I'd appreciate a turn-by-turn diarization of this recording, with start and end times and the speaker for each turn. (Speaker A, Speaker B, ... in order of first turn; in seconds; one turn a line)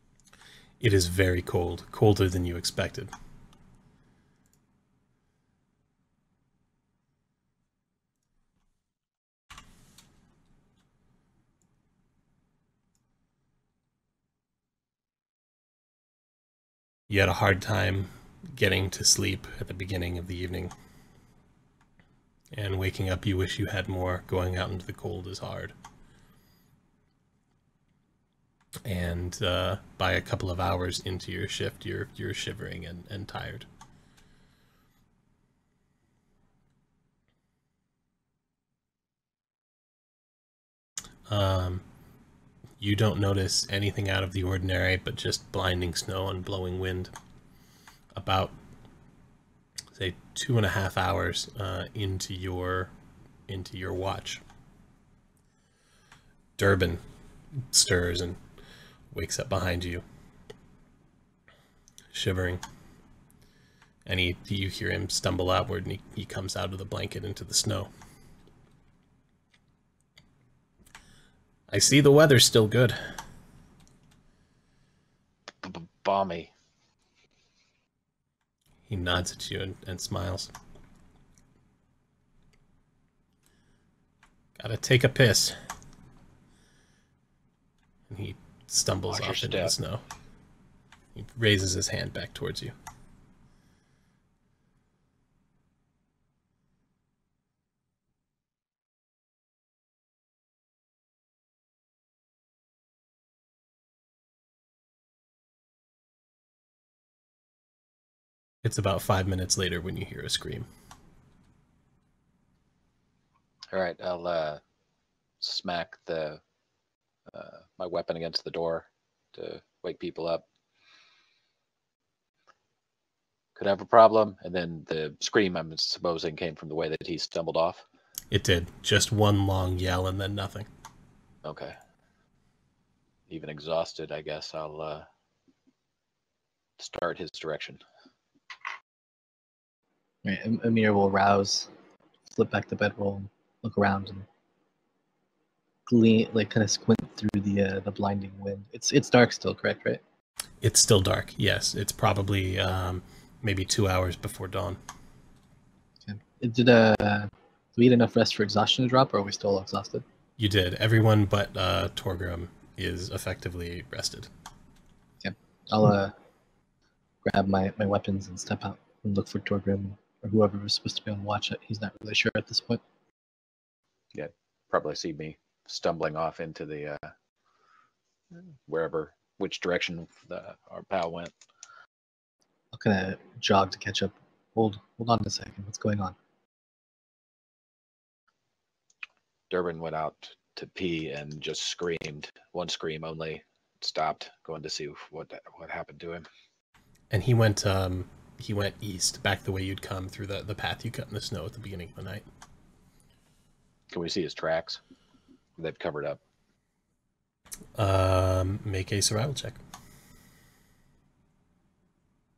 Speaker A: 0.8-3.1
Speaker A: 17.1-20.7
Speaker A: 22.5-25.7
Speaker A: 28.9-33.7
Speaker A: 41.3-41.9
Speaker A: 42.8-47.1
Speaker A: 48.1-48.5
Speaker A: 50.0-52.9
Speaker A: 53.5-54.4
Speaker A: 56.6-57.0
Speaker A: 57.7-58.4
Speaker A: 59.1-60.0
Speaker A: 62.1-62.6
Speaker A: 64.1-67.9
Speaker A: 71.7-73.1
Speaker B: 75.6-76.5
Speaker A: 78.9-80.5
Speaker A: 84.6-85.5
Speaker A: 88.1-90.0
Speaker B: 89.1-89.7
Speaker A: 91.2-92.7
Speaker A: 108.6-110.7
Speaker B: 113.7-114.6
Speaker B: 115.4-116.4
Speaker B: 117.3-120.5
Speaker B: 123.5-127.8
Speaker A: 128.3-130.7
Speaker B: 131.4-131.8
Speaker B: 133.3-135.1
Speaker B: 136.8-137.8
Speaker C: 140.2-141.7
Speaker C: 142.3-144.3
Speaker C: 145.9-150.0
Speaker A: 150.6-154.8
Speaker C: 156.1-160.0
Speaker A: 160.4-164.3
Speaker C: 165.2-166.1
Speaker C: 167.2-172.8
Speaker B: 174.1-177.1
Speaker B: 178.7-181.3
Speaker C: 182.7-186.2
Speaker B: 189.5-196.3
Speaker A: 197.1-202.2
Speaker B: 203.9-204.8
Speaker B: 205.6-206.2
Speaker A: 207.8-209.6